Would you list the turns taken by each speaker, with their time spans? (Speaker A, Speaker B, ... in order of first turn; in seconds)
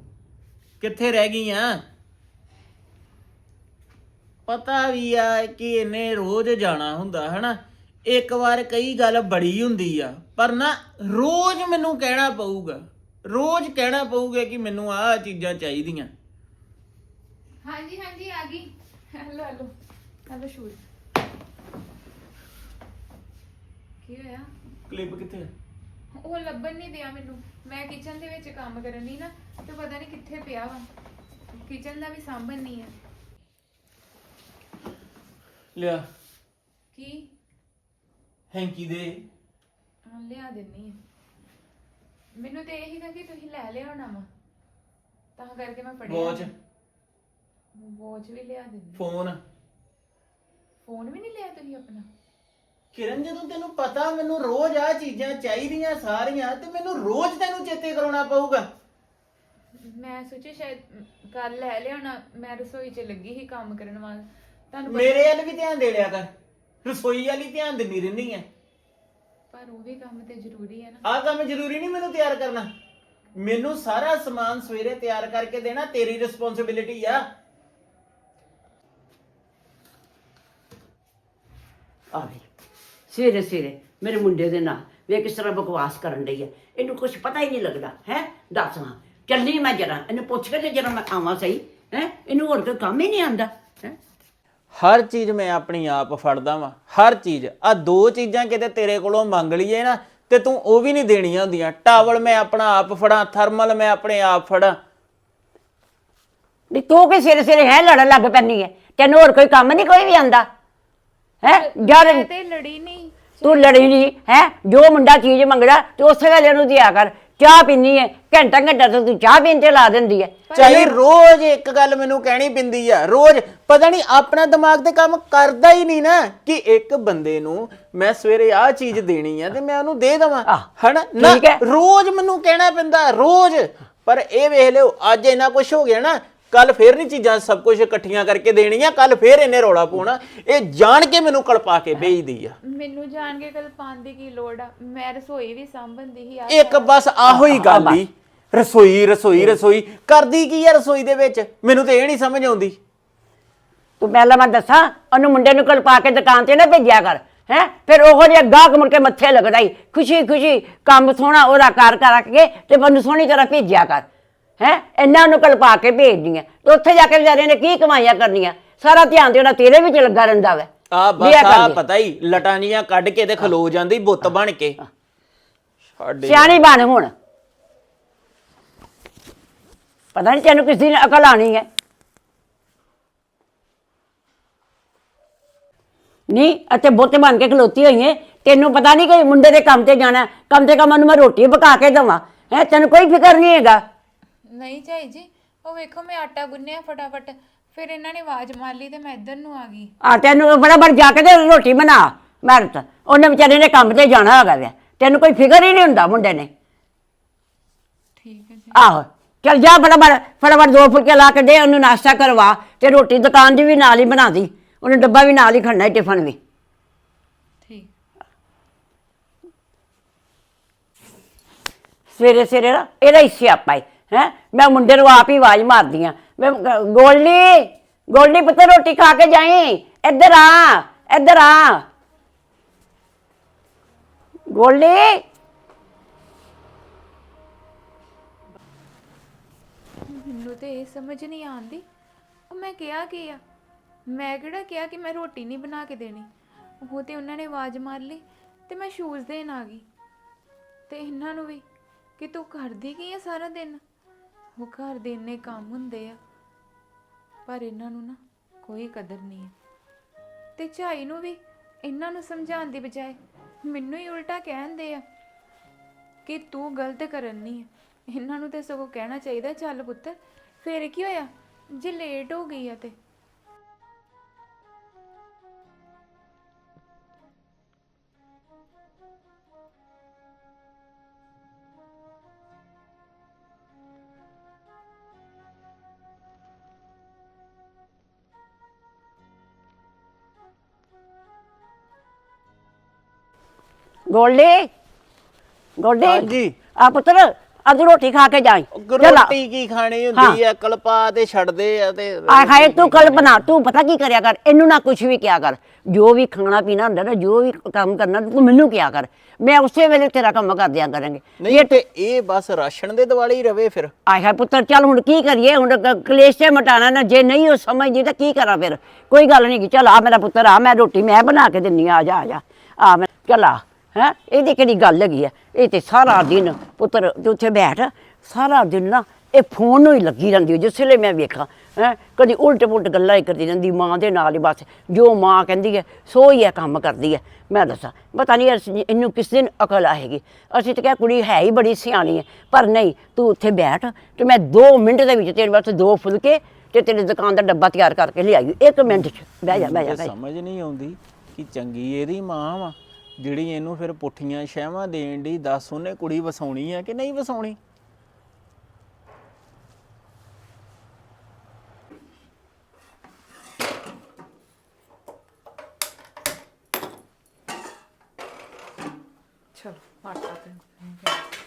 Speaker A: 0.8-1.8, 4.5-16.1, 24.9-25.5, 35.8-36.0, 38.5-39.2, 46.1-46.5, 49.0-49.4, 52.9-58.7, 64.9-66.3, 66.8-68.5, 71.0-72.7, 73.3-77.2, 94.7-104.8, 120.5-142.6, 146.5-152.8, 170.9-174.8, 175.9-176.6, 296.0-296.6, 298.7-303.4, 311.4-313.9, 349.5-357.6
Speaker B: 17.6-19.7, 20.3-20.8, 24.0-24.5, 26.1-30.9, 31.5-33.0, 36.9-37.3, 40.0-41.0, 42.3-44.3, 45.4-46.5, 47.7-49.0, 50.8-52.1, 59.8-65.3, 69.5-71.0, 111.5-113.8, 120.5-120.9, 142.6-146.9, 194.5-199.9, 208.2-208.9, 217.6-217.9, 240.1-241.8, 242.5-243.4, 244.1-249.9, 250.9-251.7, 252.2-253.8, 254.6-256.2, 257.5-259.5, 260.6-265.0, 266.2-273.0, 369.5-371.2
Speaker C: 82.1-82.4, 83.1-94.0, 106.7-110.5, 111.4-112.3, 113.4-120.9, 131.2-131.6, 147.3-148.0, 154.0-164.1, 164.6-171.8, 176.2-177.1, 180.1-181.7, 186.3-193.8, 200.0-206.5, 208.7-216.4, 222.1-231.9, 234.5-235.2, 294.1-294.7, 295.8-299.3, 302.3-311.8, 314.1-350.1